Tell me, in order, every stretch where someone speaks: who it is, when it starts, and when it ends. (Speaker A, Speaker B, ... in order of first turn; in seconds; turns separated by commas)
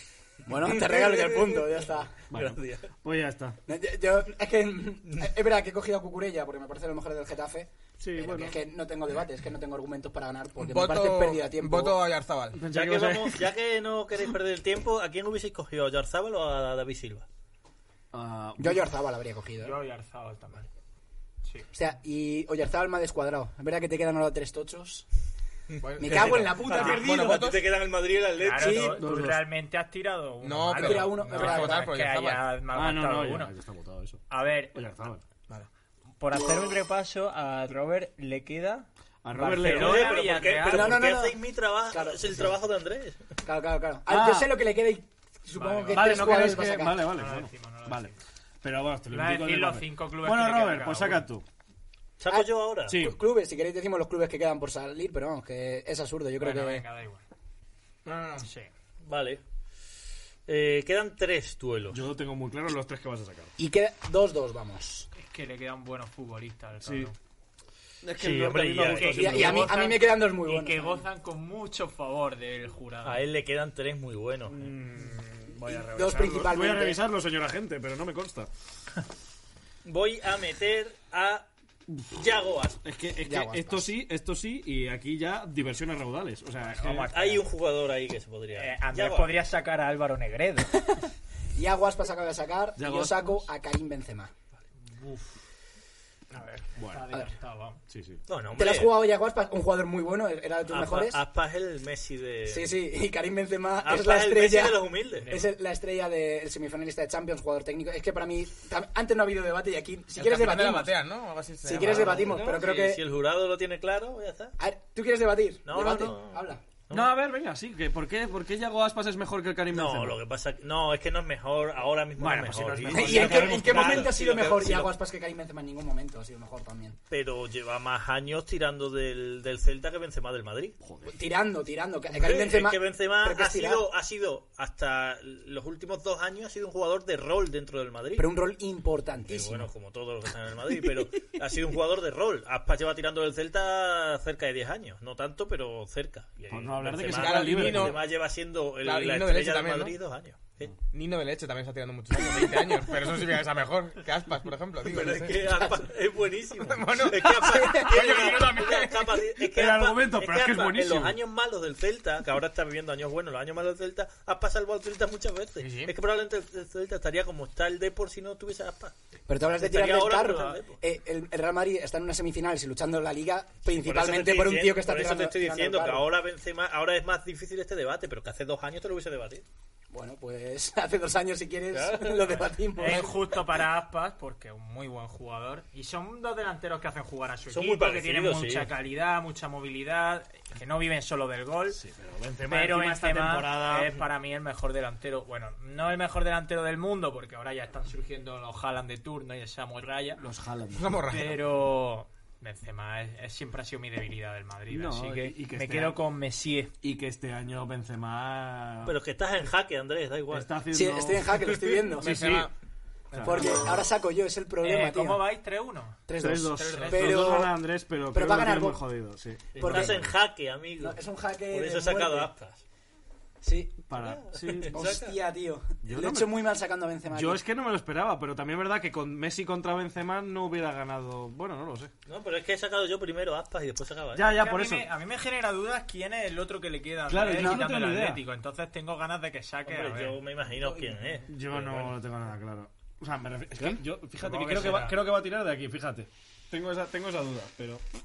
Speaker A: 0.5-2.1, Speaker B: 0.6-1.7, Speaker B: 2.3-2.9, Speaker C: 2.3-3.6, Speaker A: 3.7-12.0, Speaker C: 8.0-8.6, Speaker D: 10.6-12.6, Speaker C: 12.5-13.5, Speaker B: 12.7-17.2, Speaker C: 18.1-18.9, Speaker A: 18.6-19.8, Speaker E: 19.6-20.7, Speaker A: 21.7-25.0, Speaker B: 25.7-29.0, Speaker D: 25.8-27.6, Speaker A: 26.0-27.5, Speaker E: 28.4-33.5, Speaker A: 28.6-29.0, Speaker C: 28.9-29.4, Speaker D: 30.4-32.4, Speaker A: 30.8-31.9, Speaker C: 32.7-35.2, Speaker E: 34.3-34.8, Speaker E: 36.2-41.0, Speaker C: 39.2-40.2, Speaker B: 39.6-43.3, Speaker A: 40.7-41.4, Speaker A: 41.9-42.4, Speaker A: 43.4-47.0, Speaker C: 44.1-44.6, Speaker E: 45.5-48.2, Speaker C: 45.9-51.4, Speaker E: 49.1-51.2, Speaker B: 52.2-53.0, Speaker A: 52.3-56.8, Speaker C: 52.9-53.2, Speaker E: 56.4-57.2, Speaker D: 58.0-58.5, Speaker E: 58.4-58.7, Speaker B: 59.0-59.4, Speaker B: 60.5-62.0, Speaker C: 61.9-63.5, Speaker A: 63.6-65.1, Speaker E: 65.1-67.1, Speaker C: 66.8-67.1, Speaker C: 68.0-69.7, Speaker B: 68.2-69.5, Speaker E: 68.9-73.2, Speaker A: 69.0-71.0, Speaker B: 73.0-74.7, Speaker C: 74.5-78.5, Speaker A: 75.7-77.0, Speaker B: 79.8-81.5, Speaker C: 81.9-82.2, Speaker B: 82.1-82.8, Speaker C: 82.8-87.1, Speaker A: 83.2-83.9, Speaker E: 86.6-87.4, Speaker B: 87.0-89.3, Speaker E: 88.5-90.7, Speaker A: 91.5-94.3, Speaker C: 92.8-93.4, Speaker E: 94.9-95.3, Speaker D: 96.3-96.6, Speaker E: 96.5-97.8, Speaker C: 96.8-97.1, Speaker C: 97.9-98.2, Speaker B: 98.3-98.9, Speaker A: 98.5-101.2, Speaker B: 100.7-102.8, Speaker A: 102.5-111.0, Speaker B: 103.8-105.3, Speaker E: 105.2-105.5, Speaker D: 110.2-112.4, Speaker A: 111.6-113.0, Speaker B: 111.9-114.5, Speaker C: 112.0-112.6, Speaker A: 114.6-116.6, Speaker B: 115.6-117.1, Speaker C: 116.9-120.2, Speaker B: 119.7-124.9, Speaker C: 122.2-124.1, Speaker A: 122.9-127.0, Speaker B: 127.1-130.8, Speaker C: 130.8-131.2, Speaker A: 131.1-133.8, Speaker B: 132.1-138.3, Speaker A: 138.2-139.7, Speaker B: 139.3-150.7, Speaker C: 146.5-148.0, Speaker D: 147.0-148.0, Speaker D: 148.8-149.9, Speaker D: 150.9-155.6, Speaker B: 154.8-168.9, Speaker D: 156.6-159.2, Speaker C: 159.4-161.2, Speaker D: 165.6-165.9, Speaker A: 169.3-176.0, Speaker B: 169.6-170.8, Speaker B: 173.7-179.4, Speaker A: 179.9-183.2, Speaker B: 181.7-183.0, Speaker E: 182.8-191.8, Speaker B: 187.5-188.7, Speaker C: 191.7-194.0, Speaker E: 192.5-200.2, Speaker C: 200.2-201.0, Speaker D: 200.7-201.4, Speaker E: 201.1-206.7, Speaker C: 204.7-206.0, Speaker C: 206.8-208.9, Speaker B: 208.8-210.5, Speaker C: 210.3-211.4, Speaker A: 210.7-212.2, Speaker D: 212.0-212.5, Speaker C: 212.0-212.5, Speaker C: 213.1-213.6, Speaker D: 213.1-213.5, Speaker A: 213.2-215.3, Speaker E: 214.6-216.0, Speaker A: 216.1-217.5, Speaker C: 216.2-220.1, Speaker D: 216.6-217.1, Speaker E: 216.7-217.3, Speaker A: 218.1-218.8, Speaker A: 219.5-220.1, Speaker B: 219.6-221.0, Speaker A: 220.8-222.3, Speaker B: 221.5-222.6, Speaker A: 223.4-223.8, Speaker C: 223.9-224.9, Speaker B: 223.9-225.2, Speaker A: 224.7-227.4, Speaker C: 225.8-226.3, Speaker C: 227.1-231.9, Speaker B: 232.1-234.3, Speaker C: 234.1-234.9, Speaker E: 234.2-240.2, Speaker C: 237.1-238.2, Speaker A: 237.3-237.6, Speaker B: 239.7-241.9, Speaker C: 241.3-247.8, Speaker E: 244.2-245.0